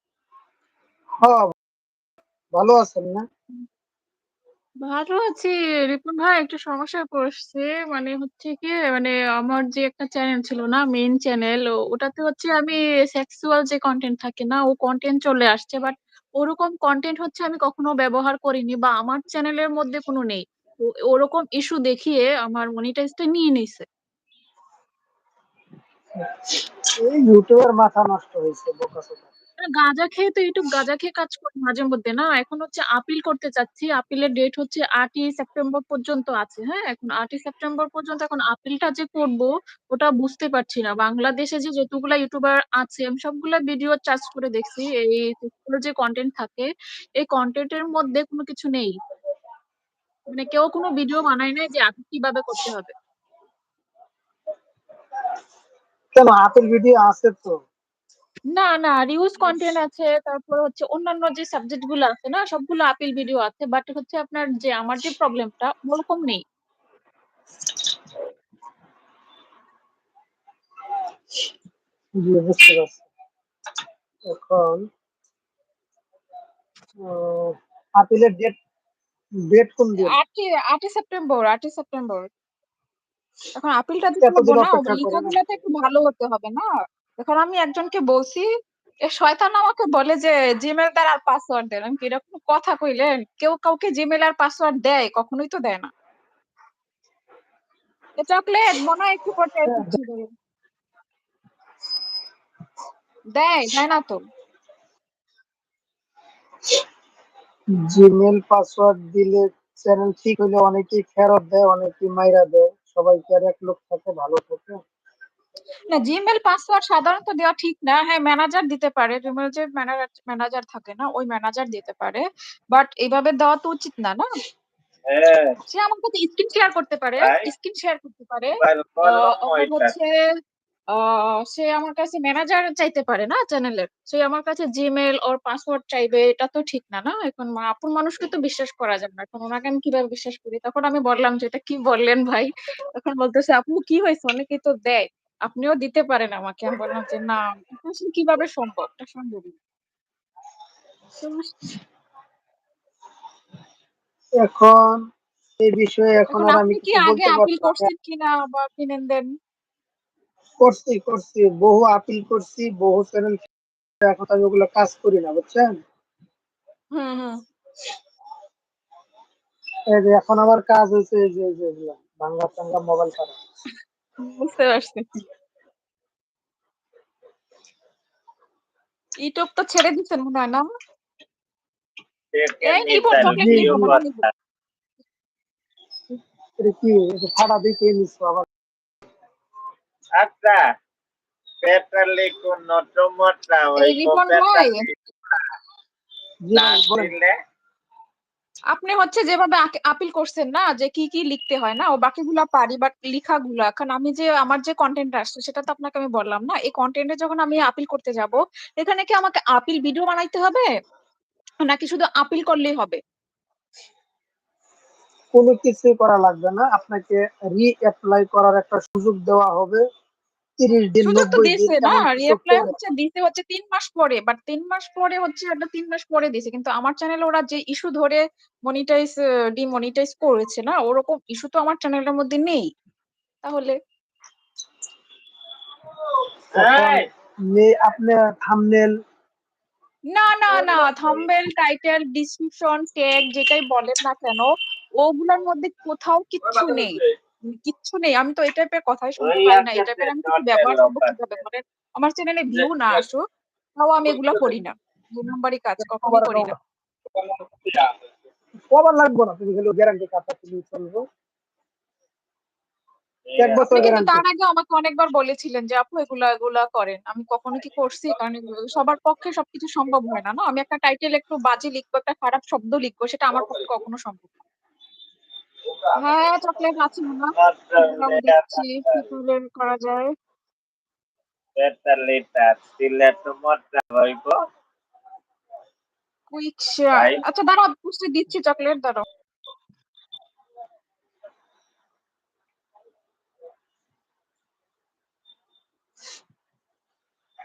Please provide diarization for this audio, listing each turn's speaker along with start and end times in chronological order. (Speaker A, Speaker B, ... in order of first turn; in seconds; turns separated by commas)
Speaker A: 1.2-1.5, Speaker A: 2.5-3.2, Speaker B: 4.8-23.9, Speaker A: 26.2-29.3, Speaker B: 29.7-49.0, Speaker B: 50.3-52.9, Speaker A: 56.1-57.6, Speaker B: 58.5-66.4, Speaker A: 72.2-73.0, Speaker A: 74.3-74.8, Speaker A: 77.0-78.5, Speaker A: 79.5-80.2, Speaker B: 80.0-82.3, Speaker B: 83.5-86.6, Speaker A: 84.2-85.4, Speaker B: 87.2-88.5, Speaker B: 89.1-95.9, Speaker B: 98.2-100.3, Speaker B: 103.3-104.2, Speaker A: 107.8-114.8, Speaker B: 115.9-124.2, Speaker C: 125.1-125.6, Speaker B: 125.6-130.1, Speaker C: 127.2-127.5, Speaker C: 128.6-129.9, Speaker B: 130.9-149.5, Speaker B: 151.2-151.5, Speaker A: 154.4-155.0, Speaker A: 155.6-157.9, Speaker B: 156.3-159.3, Speaker A: 160.6-163.4, Speaker A: 164.0-165.7, Speaker B: 166.9-167.4, Speaker A: 169.9-173.3, Speaker B: 174.2-175.2, Speaker B: 179.2-180.7, Speaker C: 182.3-184.1, Speaker B: 182.7-184.2, Speaker A: 183.2-183.9, Speaker A: 186.6-188.4, Speaker C: 190.2-190.6, Speaker C: 191.6-194.9, Speaker B: 193.8-194.8, Speaker A: 196.4-197.1, Speaker C: 196.5-197.3, Speaker B: 198.7-210.7, Speaker B: 211.6-213.0, Speaker A: 215.3-219.8, Speaker A: 220.6-222.7, Speaker B: 221.0-232.6, Speaker B: 233.4-233.7, Speaker C: 236.5-237.1, Speaker A: 236.5-238.9, Speaker B: 240.1-253.2, Speaker C: 240.5-241.3, Speaker C: 246.5-246.9, Speaker C: 249.2-251.4, Speaker C: 252.5-253.0, Speaker B: 253.8-256.5, Speaker C: 254.1-254.6, Speaker A: 255.8-256.5, Speaker C: 257.1-257.9, Speaker A: 258.7-261.0, Speaker C: 263.2-263.8, Speaker A: 263.4-264.2, Speaker B: 263.7-274.3, Speaker B: 276.0-280.1, Speaker C: 277.4-279.1, Speaker C: 281.6-284.4, Speaker B: 286.3-289.0, Speaker C: 286.9-287.2